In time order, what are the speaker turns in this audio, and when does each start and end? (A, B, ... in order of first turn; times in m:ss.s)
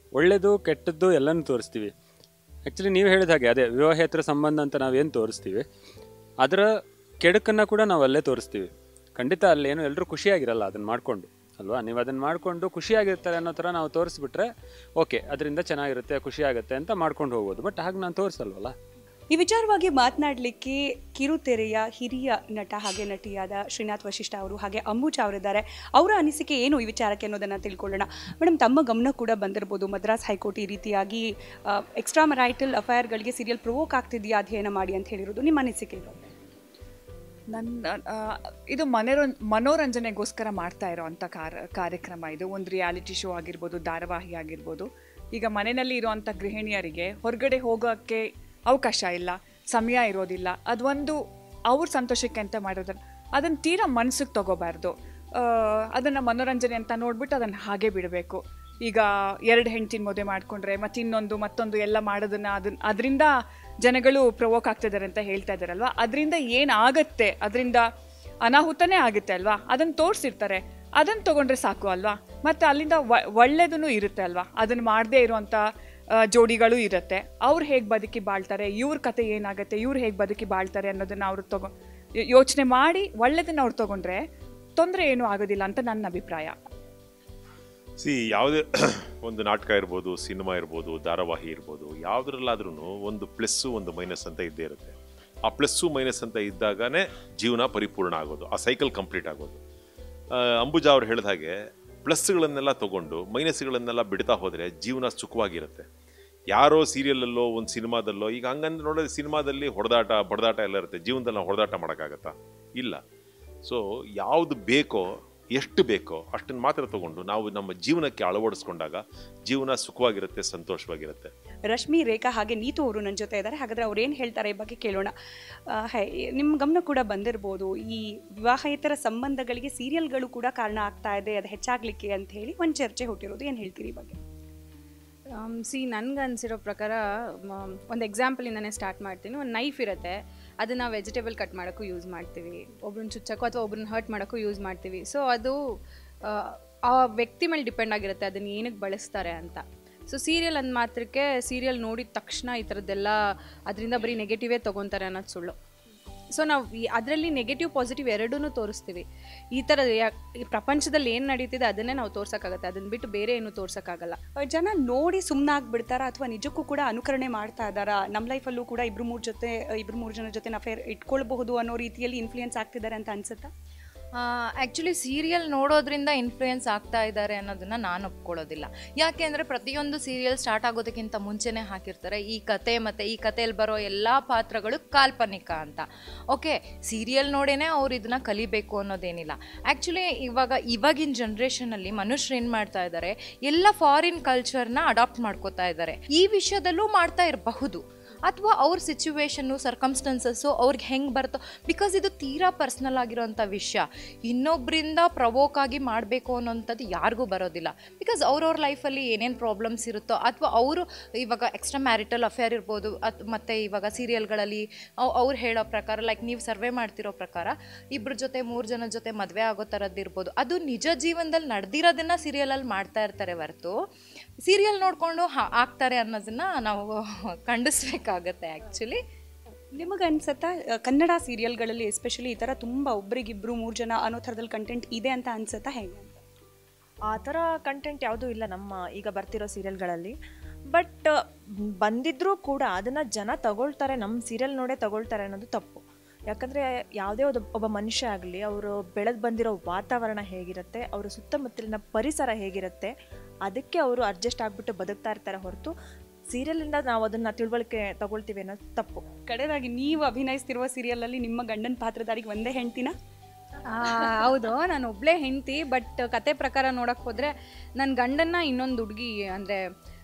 0:00.1-0:01.9 A
0:02.7-0:05.6 A
0:06.4-0:06.7 A
0:07.2-0:18.8 A
0:19.3-0:36.3 B
0:38.7-0:51.1 C
0:51.7-0:54.9 C
0:56.0-1:03.3 C
1:03.8-1:07.8 C
1:08.5-1:15.6 C
1:16.3-1:21.7 C
1:22.3-1:24.2 C
1:24.8-1:26.5 C
1:28.0-1:39.6 D
1:40.6-1:41.5 D
1:42.0-1:45.9 D
1:46.5-1:53.0 D
1:53.7-2:01.3 D
2:01.7-2:05.1 B
2:05.7-2:14.2 B
2:15.3-2:25.6 E
2:26.2-2:33.2 E
2:33.7-2:35.6 E
2:36.3-2:44.2 E
2:44.4-2:53.5 B
2:54.2-3:43.8 F
3:44.4-3:49.0 F
3:49.8-3:56.2 B
3:57.1-4:00.1 G
4:00.7-4:01.1 G
4:01.8-4:12.9 G
4:13.5-4:15.7 G
4:16.3-4:19.0 G
4:19.2-4:22.9 B
4:23.7-4:29.6 E